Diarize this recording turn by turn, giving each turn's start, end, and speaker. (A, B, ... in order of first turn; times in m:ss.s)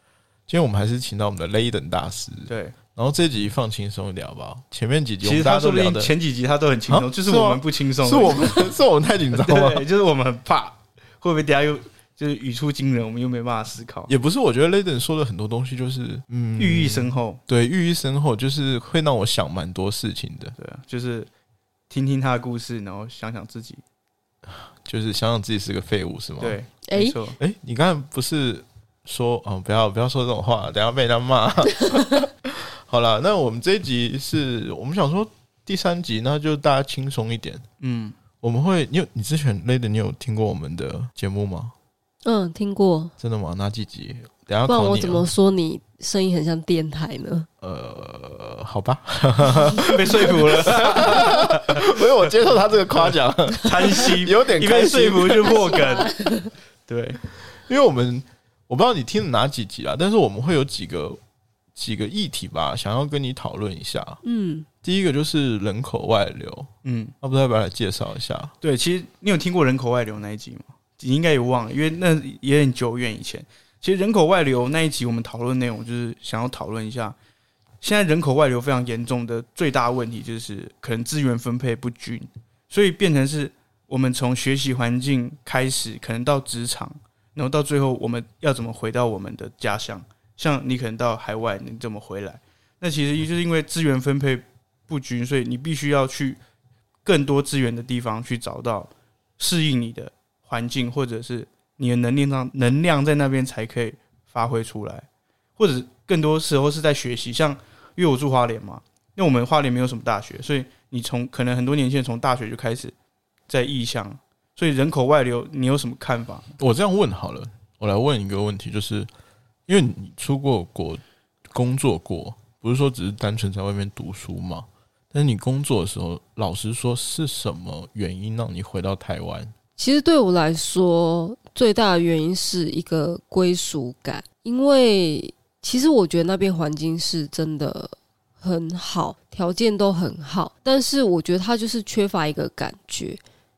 0:00.5-0:06.1 A
0:02.5-0:02.8 B
0:05.2-0:08.7 B
0:06.9-0:09.8 A
0:09.3-0:14.1 B
0:14.1-0:20.6 A
0:16.6-0:17.4 B
0:20.6-0:21.3 B
0:21.9-0:23.8 B
0:24.5-0:26.6 A
0:26.4-0:27.4 B
0:26.9-0:27.2 C
0:27.4-0:37.6 A
0:37.8-0:38.2 B
0:38.4-0:41.8 A
0:42.2-0:43.1 C
0:43.2-0:45.3 A
0:44.7-0:47.5 C
0:47.6-0:56.0 A
0:49.6-0:52.3 B
0:53.6-0:56.2 B
0:55.5-0:56.5 C
0:56.9-0:57.2 B
0:57.4-1:01.2 A
1:01.8-1:04.2 A
1:04.2-1:04.7 C
1:04.8-1:06.7 A
1:06.8-1:07.1 B
1:07.2-1:08.6 A
1:08.6-1:17.2 B
1:17.8-1:36.4 B
1:37.0-1:45.1 B
1:45.6-1:52.9 B
1:53.5-1:56.5 B
1:56.6-1:59.1 A
1:59.7-2:09.5 A
2:09.8-2:23.2 C